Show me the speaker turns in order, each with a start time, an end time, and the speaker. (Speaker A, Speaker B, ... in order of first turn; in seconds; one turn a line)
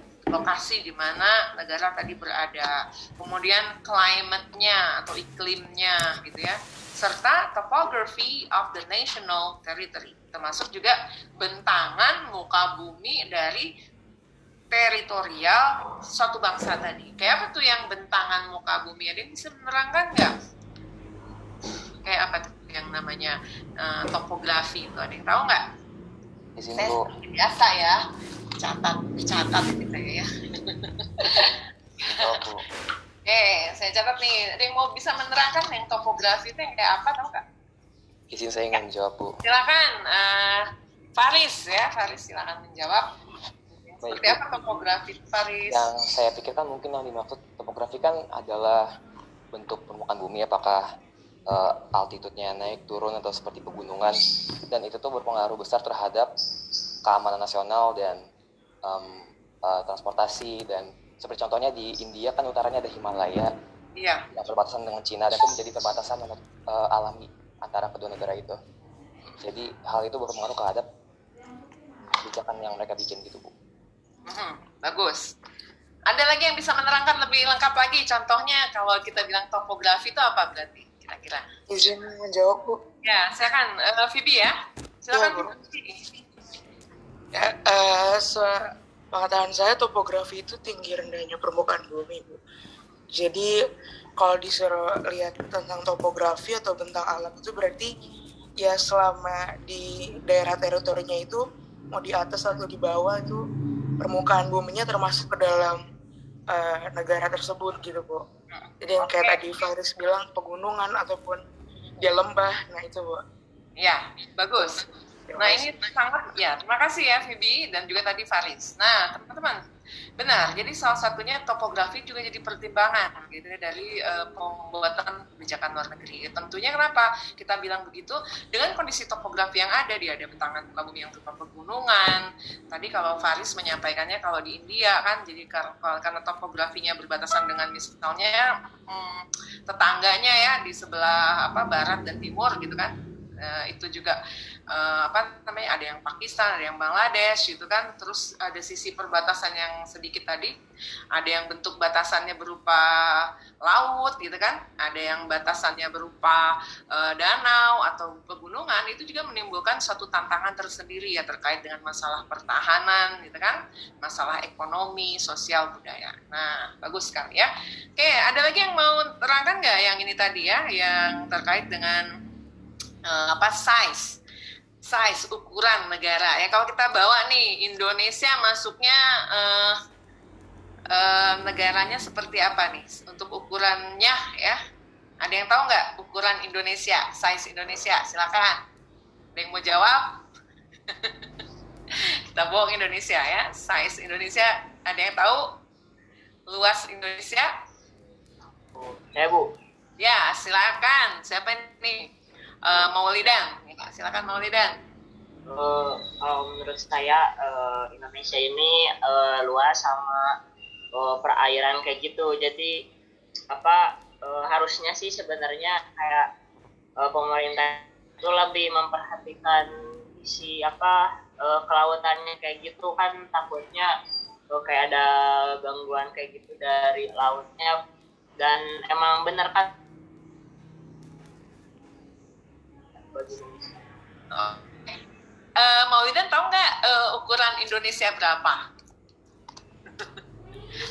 Speaker A: 0.3-13.7
Speaker A: 14.7-20.3
Speaker A: 22.0-25.6
Speaker B: 26.6-27.0
Speaker A: 26.8-28.0
Speaker A: 28.6-31.4
Speaker B: 31.3-32.6
Speaker A: 33.2-37.4
Speaker B: 38.3-39.4
Speaker A: 39.4-40.6
Speaker A: 41.2-43.0
Speaker A: 43.7-45.9
Speaker B: 44.0-44.6
Speaker B: 45.7-48.8
Speaker B: 49.5-50.8
Speaker B: 51.5-54.1
Speaker B: 54.7-56.3
Speaker B: 57.0-58.2
Speaker B: 58.8-63.5
Speaker A: 64.0-64.2
Speaker B: 64.3-68.6
Speaker B: 69.4-70.8
Speaker B: 72.2-73.5
Speaker A: 74.3-75.2
Speaker A: 76.1-81.5
Speaker C: 81.7-82.8
Speaker A: 83.0-86.1
Speaker C: 85.1-85.5
Speaker C: 87.3-88.5
Speaker C: 89.1-92.4
Speaker C: 93.1-93.5
Speaker C: 94.2-97.9
Speaker C: 98.6-103.4
Speaker C: 104.0-105.8
Speaker C: 106.5-108.2
Speaker A: 108.5-109.4
Speaker C: 108.8-111.4
Speaker C: 112.0-113.2
Speaker A: 113.8-114.8
Speaker C: 115.3-115.7
Speaker A: 115.4-119.6
Speaker A: 120.2-144.2
Speaker A: 144.7-150.5
Speaker A: 151.1-172.0
Speaker A: 173.1-174.2
Speaker A: 174.8-179.7
Speaker A: 180.9-184.6
Speaker A: 185.2-188.6
Speaker A: 189.3-190.1
Speaker A: 192.3-195.5
Speaker A: 196.5-197.5
Speaker D: 198.8-199.5
Speaker A: 200.0-202.1
Speaker A: 202.6-204.7
Speaker D: 205.5-210.3
Speaker D: 211.0-212.7
Speaker D: 213.5-216.2
Speaker D: 217.0-223.9
Speaker D: 224.5-227.8
Speaker D: 228.4-229.7
Speaker D: 233.1-233.8
Speaker A: 234.3-234.9
Speaker A: 235.6-238.6